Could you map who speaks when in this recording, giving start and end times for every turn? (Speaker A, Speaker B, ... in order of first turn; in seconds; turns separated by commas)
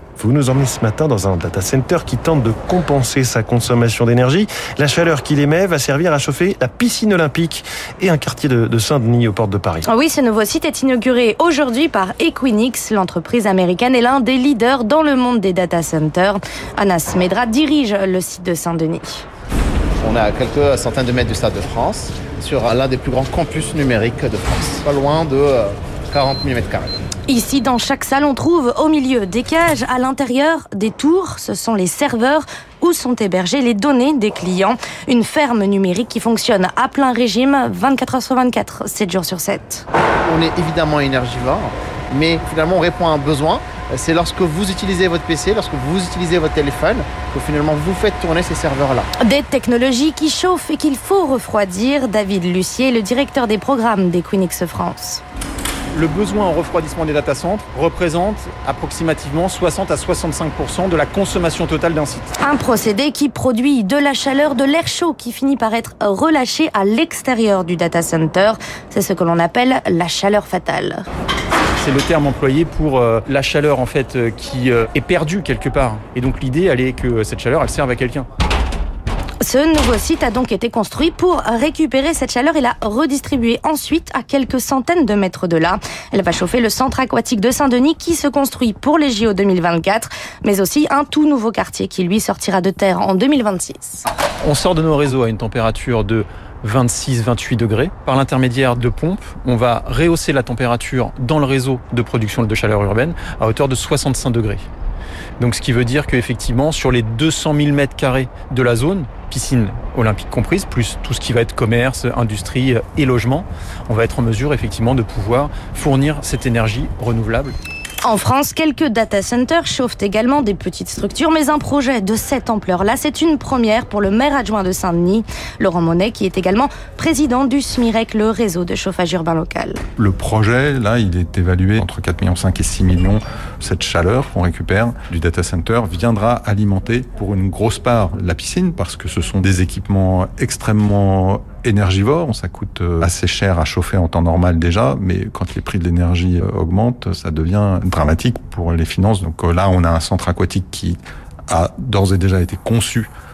Speaker A: 0.2-9.8, Speaker B: 9.9-19.2, Speaker C: 20.0-26.9, Speaker B: 27.3-39.8, Speaker C: 40.2-49.1, Speaker B: 49.2-55.2, Speaker D: 55.9-62.3, Speaker B: 62.4-71.1, Speaker D: 71.8-78.3, Speaker B: 79.4-94.0, Speaker D: 94.4-104.7, Speaker D: 105.4-117.5, Speaker B: 118.0-129.8, Speaker E: 130.0-153.1